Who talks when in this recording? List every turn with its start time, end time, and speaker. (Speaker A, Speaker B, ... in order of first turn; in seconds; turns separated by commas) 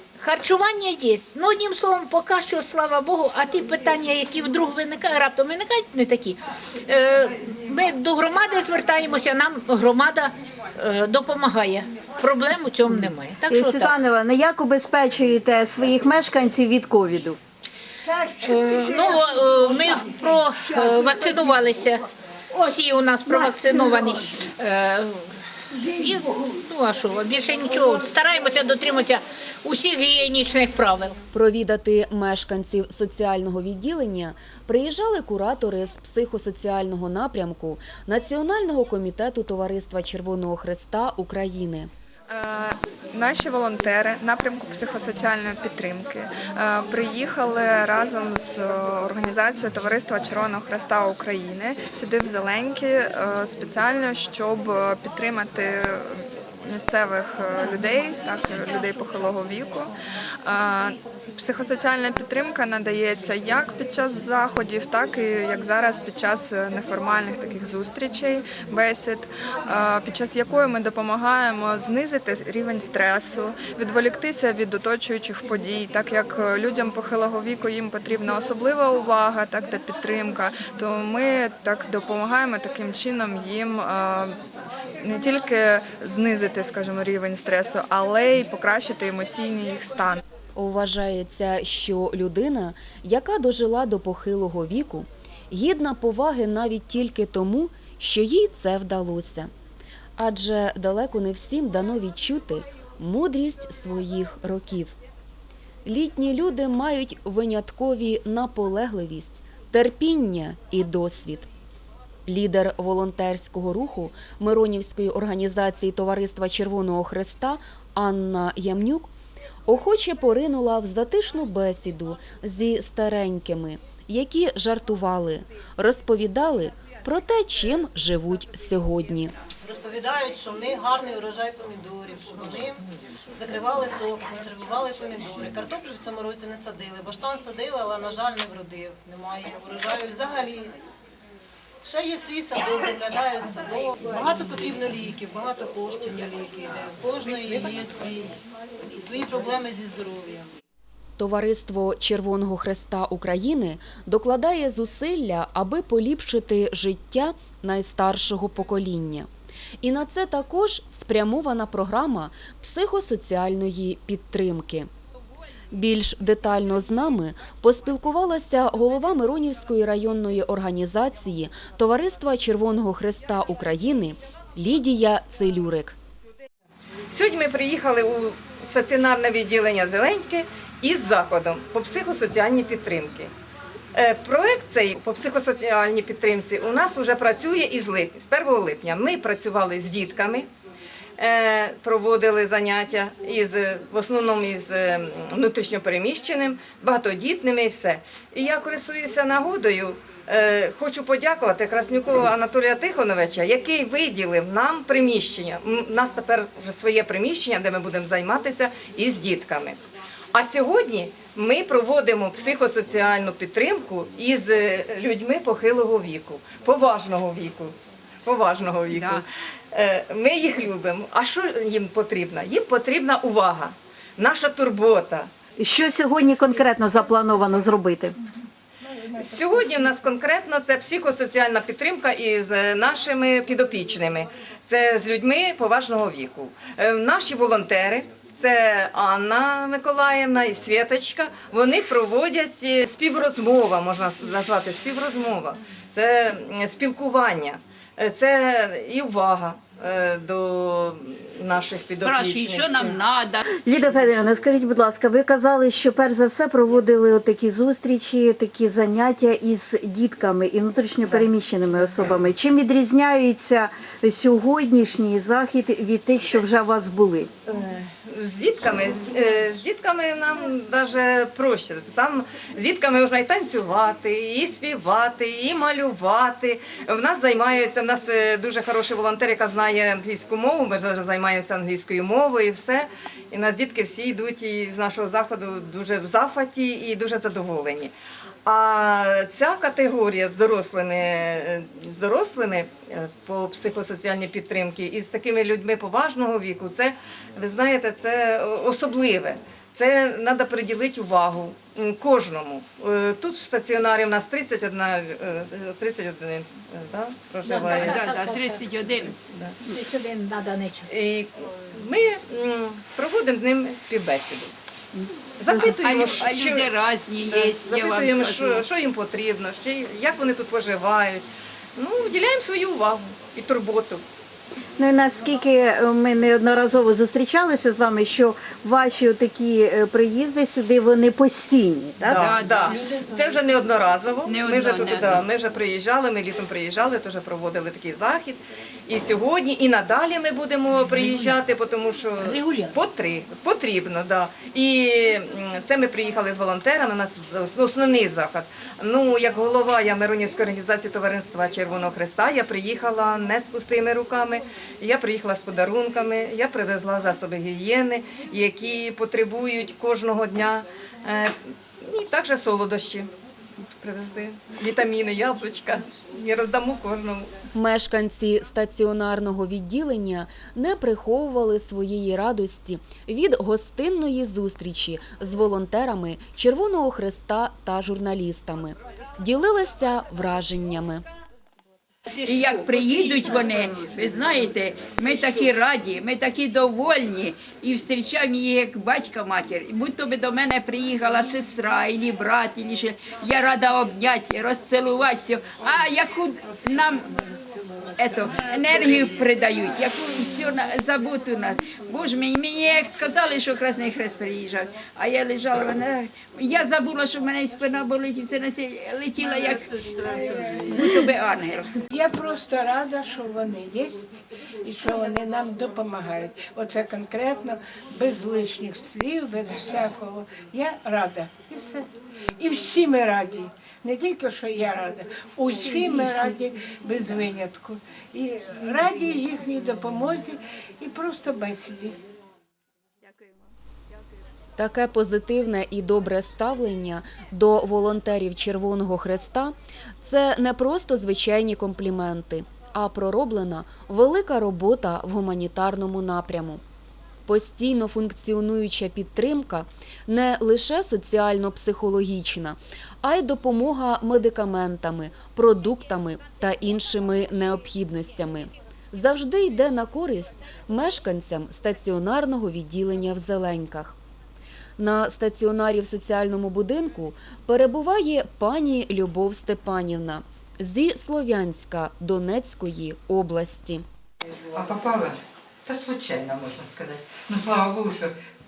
Speaker A: 0.2-14.0, Speaker B: 13.5-17.4, Speaker A: 18.4-25.3, Speaker A: 25.9-31.2, Speaker C: 31.3-41.9, Speaker D: 42.3-59.9, Speaker D: 60.5-84.3, Speaker D: 85.0-90.2, Speaker C: 90.5-99.5, Speaker C: 100.2-104.9, Speaker C: 105.8-111.5, Speaker C: 112.3-119.1, Speaker C: 119.7-129.3, Speaker E: 129.6-140.7, Speaker E: 141.8-148.4, Speaker E: 149.0-150.5, Speaker C: 151.2-159.3, Speaker C: 159.8-164.9, Speaker C: 165.7-175.9, Speaker F: 177.1-183.3, Speaker F: 184.1-190.4, Speaker D: 188.6-189.9, Speaker F: 191.3-194.6, Speaker F: 195.3-209.8, Speaker D: 196.0-197.7, Speaker D: 208.6-209.1, Speaker F: 210.3-217.7, Speaker F: 218.3-219.2, Speaker G: 218.9-219.2, Speaker F: 219.8-225.3, Speaker B: 225.6-228.1, Speaker F: 229.2-250.8, Speaker D: 229.3-230.4, Speaker D: 240.4-240.8, Speaker D: 241.3-241.6, Speaker F: 251.5-253.0, Speaker D: 251.6-252.8, Speaker G: 252.0-253.4, Speaker B: 253.6-267.3, Speaker F: 267.5-282.8, Speaker F: 283.3-287.9, Speaker D: 286.1-286.6, Speaker F: 288.5-307.9, Speaker D: 294.5-294.8, Speaker A: 307.4-309.1, Speaker D: 307.5-307.9, Speaker G: 307.9-309.1, Speaker A: 309.6-310.9, Speaker F: 310.9-314.5, Speaker F: 315.4-321.2, Speaker G: 315.5-318.6, Speaker D: 315.8-316.4, Speaker F: 321.8-324.0, Speaker B: 324.8-332.2, Speaker F: 332.1-338.4, Speaker G: 332.2-332.8, Speaker D: 333.4-334.4, Speaker G: 334.2-335.3, Speaker F: 338.9-342.1, Speaker A: 340.9-341.3, Speaker D: 341.0-341.3, Speaker A: 342.2-342.8, Speaker F: 342.8-345.1, Speaker F: 345.7-361.2, Speaker D: 355.0-355.4, Speaker D: 357.6-358.7, Speaker F: 361.9-363.0, Speaker D: 362.2-363.0, Speaker F: 364.0-366.8, Speaker D: 364.2-365.7, Speaker D: 366.5-367.2, Speaker C: 367.5-381.0, Speaker G: 382.2-397.1, Speaker G: 398.0-409.7, Speaker G: 410.6-411.7, Speaker H: 412.0-421.8, Speaker H: 422.4-426.3, Speaker H: 426.9-431.9, Speaker C: 434.6-446.6, Speaker C: 447.3-463.9, Speaker C: 464.8-473.8, Speaker I: 474.5-478.1